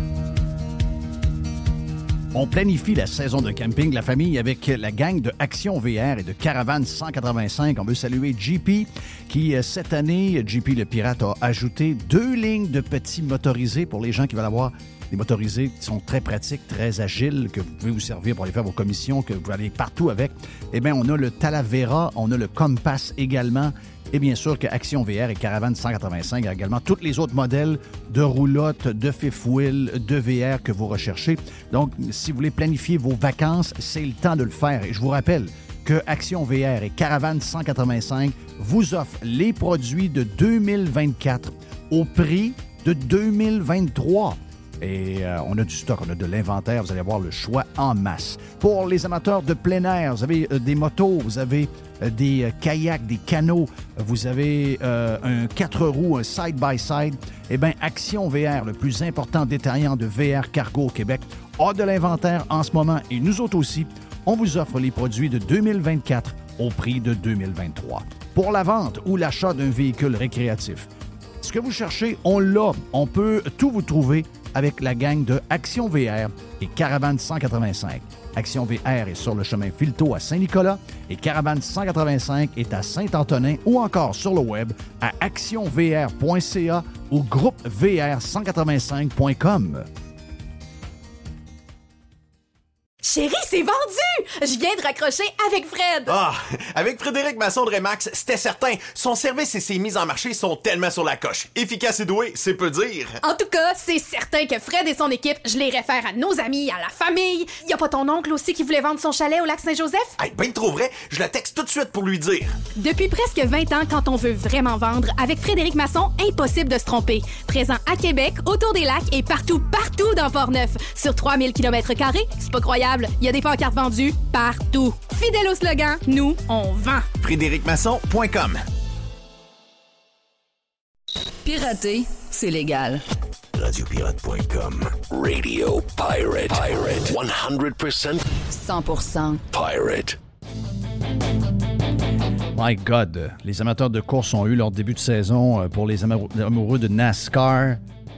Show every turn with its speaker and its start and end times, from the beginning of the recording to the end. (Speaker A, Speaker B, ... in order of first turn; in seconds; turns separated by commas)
Speaker A: 2.3-70.9, Speaker A: 71.4-89.9, Speaker B: 93.0-96.1, Speaker C: 96.1-103.2, Speaker B: 103.2-110.1, Speaker C: 110.2-112.5, Speaker B: 112.8-127.0, Speaker C: 127.2-128.6, Speaker D: 131.4-133.0, Speaker E: 133.5-138.2, Speaker D: 138.5-139.4, Speaker E: 139.5-140.2, Speaker A: 142.5-147.8